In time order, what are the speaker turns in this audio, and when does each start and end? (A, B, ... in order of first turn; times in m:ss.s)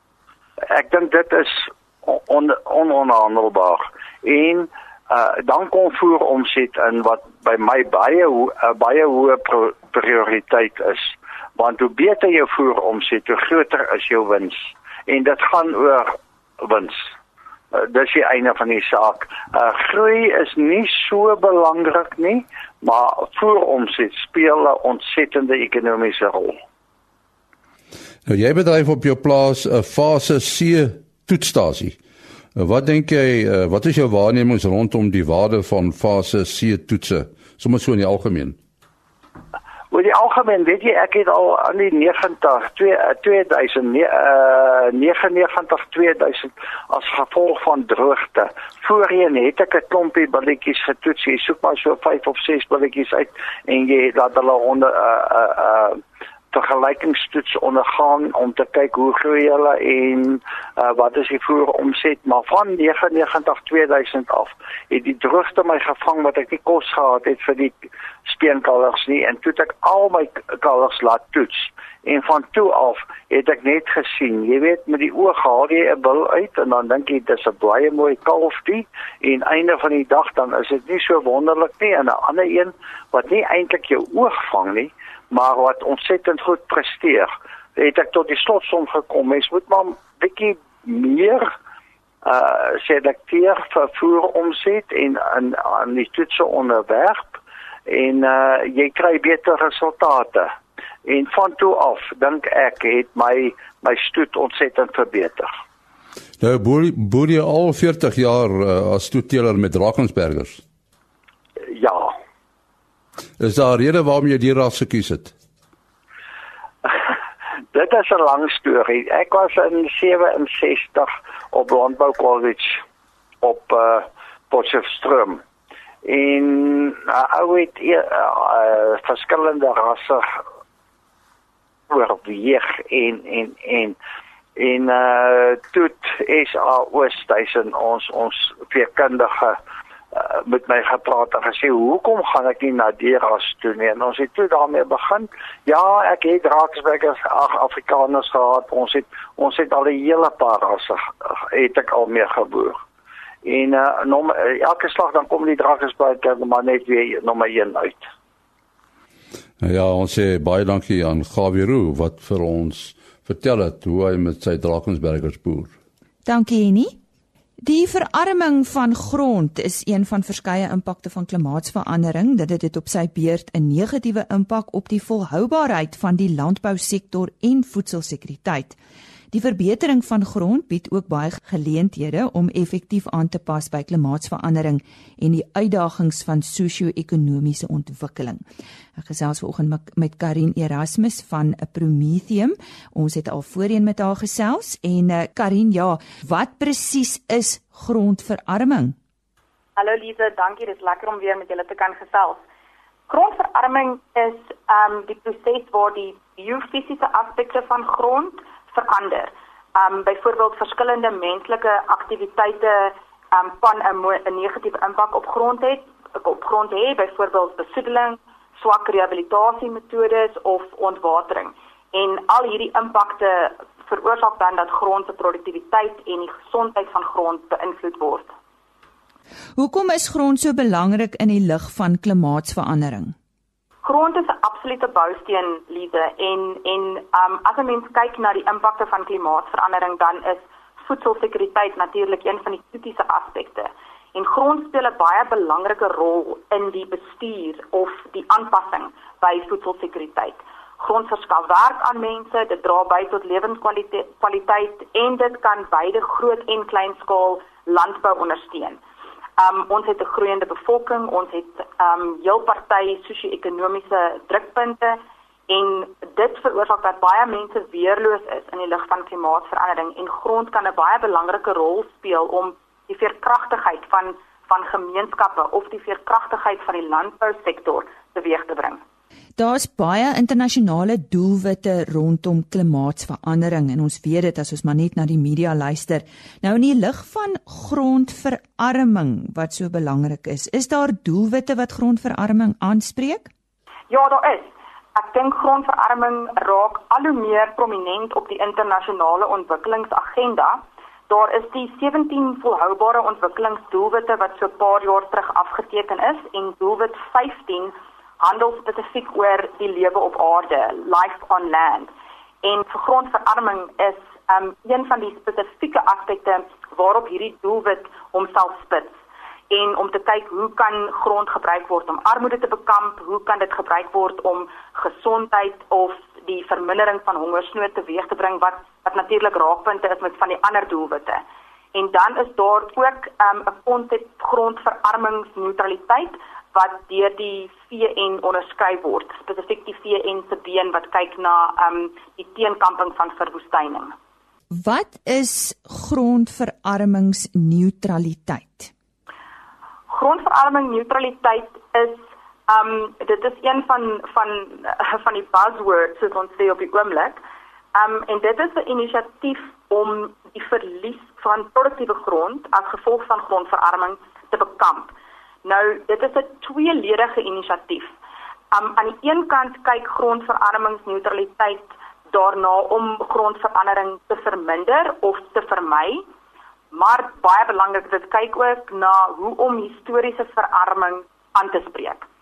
0:00.7-0:17.1 A
0:17.7-0:26.6 A
0:28.2-0:32.0 B
0:32.5-0:38.6 B
0:39.9-0:56.0 A
0:56.5-1:31.5 A
1:32.2-1:40.5 A
1:41.0-1:45.5 A
1:46.4-1:50.6 B
1:51.7-1:52.2 A
1:53.4-1:55.3 B
1:57.7-2:02.8 A
2:03.4-2:05.4 A
2:06.0-2:10.4 A
2:11.9-2:14.0 A
2:14.6-2:19.6 A
2:20.1-2:32.8 A
2:33.4-2:38.1 A
2:39.6-2:45.7 B
2:46.2-2:47.0 C
2:47.6-2:58.8 C
2:59.3-3:08.4 C
3:08.9-3:19.0 C
3:19.8-3:22.4 D
3:23.1-3:48.3 D
3:49.6-3:53.2 C
3:53.8-4:18.8 D
4:19.4-4:38.8 D
4:39.4-4:53.3 C
4:53.9-5:11.9 D
5:12.4-5:19.0 D
5:19.5-5:31.2 D
5:31.7-5:43.9 D
5:44.5-5:48.7 C
5:49.9-5:57.2 D
5:57.7-6:07.9 D
6:08.5-6:16.0 D
6:16.7-6:22.0 D